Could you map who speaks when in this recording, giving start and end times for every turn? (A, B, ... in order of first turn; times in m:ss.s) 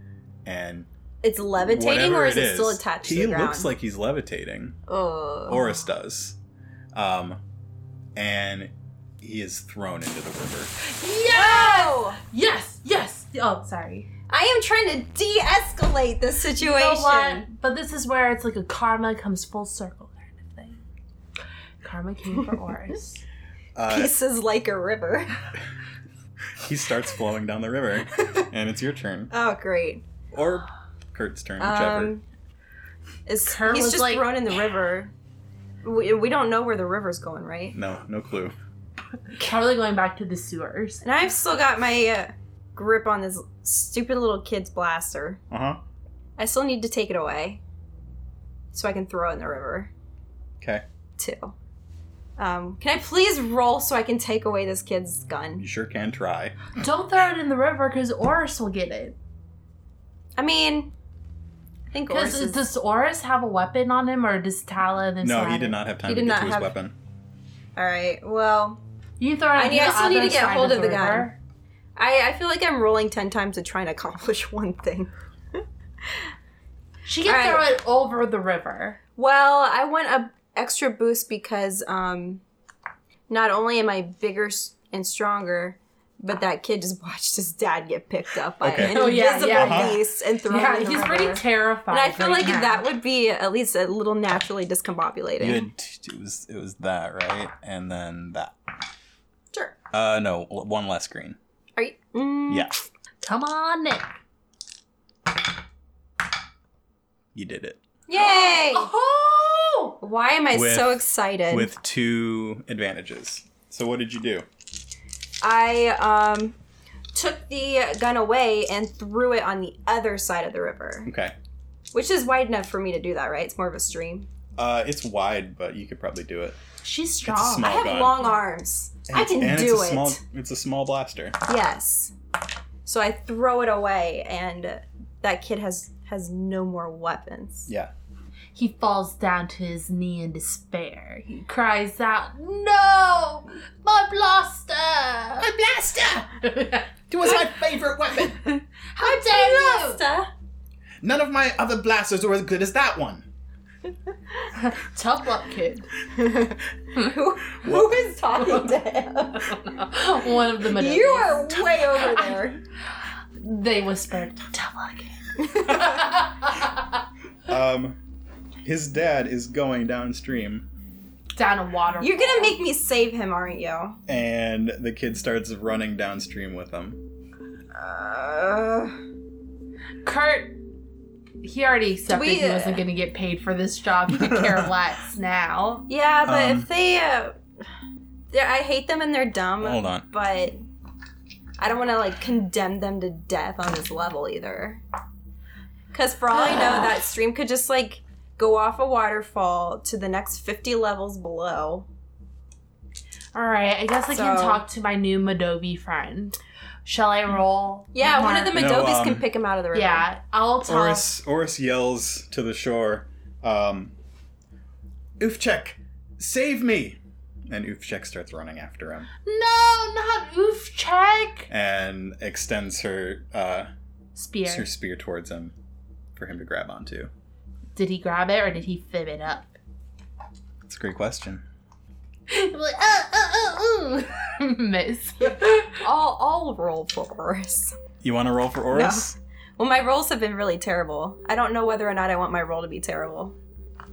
0:00.4-0:00.9 A
0:01.2-0:03.7 B
0:01.6-0:04.8 A
0:04.9-0:05.6 B
0:05.5-0:06.4 A
0:07.0-0:07.4 A
0:08.2-0:10.7 A
0:10.8-0:14.1 C
0:11.3-0:12.2 B
0:14.3-0:17.5 B
0:16.6-0:20.8 C
0:21.8-0:23.2 C
0:23.8-0:24.1 A
0:23.9-0:25.4 B
0:26.6-0:29.3 A
0:28.2-0:28.5 B
0:29.3-0:30.0 B
0:30.3-0:32.1 A
0:31.6-0:32.2 B
0:33.3-0:35.1 B
0:33.4-0:34.3 C
0:35.8-0:37.8 B
0:37.7-0:38.6 A
0:39.3-0:41.0 C
0:41.0-0:45.4 B
0:45.5-0:45.8 A
0:46.4-0:47.6 B
0:48.7-0:49.9 B
0:51.2-0:51.5 B
0:52.4-0:55.6 B
0:55.6-0:56.7 A
0:56.8-0:59.2 C
1:00.4-1:00.9 B
1:01.9-1:02.6 B
1:02.1-1:05.8 C
1:05.2-1:06.9 A
1:06.1-1:06.7 B
1:07.8-1:08.8 B
1:09.2-1:11.4 C
1:09.6-1:11.3 B
1:12.0-1:16.2 B
1:17.1-1:19.0 C
1:17.3-1:17.7 B
1:19.2-1:22.4 B
1:23.3-1:35.6 B
1:28.6-1:30.0 A
1:28.8-1:32.9 C
1:35.4-1:38.6 A
1:39.9-1:41.4 A
1:41.8-1:42.7 B
1:42.5-1:42.8 A
1:43.2-1:44.1 C
1:47.3-1:47.8 A
1:48.1-1:48.9 B
1:48.1-1:50.0 C
1:50.0-1:51.7 B
1:50.5-1:54.5 A
1:55.4-1:56.6 B
1:57.1-2:01.1 B
2:01.0-2:01.4 A
2:01.9-2:04.3 B
2:04.6-2:06.6 A
2:06.8-2:07.9 C
2:07.2-2:08.2 A
2:07.6-2:10.2 B
2:09.1-2:11.4 A
2:11.5-2:12.1 B
2:12.8-2:17.7 B
2:17.7-2:17.9 A
2:18.6-2:27.0 C
2:27.1-2:28.5 A
2:28.4-2:30.0 C
2:29.0-2:30.3 B
2:31.0-2:33.3 A
2:34.6-2:35.9 C
2:36.2-2:39.6 B
2:37.6-2:38.0 A
2:39.5-2:42.4 C
2:40.6-2:42.6 B
2:43.4-2:46.8 C
2:45.4-2:46.0 B
2:47.5-2:48.0 A
2:48.6-2:50.7 A
2:51.4-2:52.6 C
2:52.0-2:54.0 B
2:54.1-2:57.0 A
2:57.7-2:59.0 B
3:00.0-3:00.6 C
3:01.4-3:05.9 C
3:02.1-3:02.8 B
3:04.2-3:04.7 A
3:05.9-3:07.4 B
3:06.2-3:06.7 A
3:08.3-3:10.6 B
3:09.6-3:10.1 A
3:11.6-3:14.8 B
3:15.9-3:21.9 B
3:23.3-3:28.6 C
3:24.1-3:24.6 B
3:27.9-3:30.1 B
3:28.5-3:29.3 A
3:29.7-3:31.1 C
3:30.6-3:33.9 A
3:35.2-3:39.1 A
3:39.2-3:41.5 C
3:41.5-3:43.7 A
3:44.2-3:44.7 C
3:44.4-3:45.5 A
3:46.2-3:47.1 A
3:47.8-3:49.6 C
3:50.7-3:51.4 A
3:52.3-3:55.8 C
3:55.6-3:57.8 B
3:58.0-3:59.2 A
3:58.7-4:03.4 B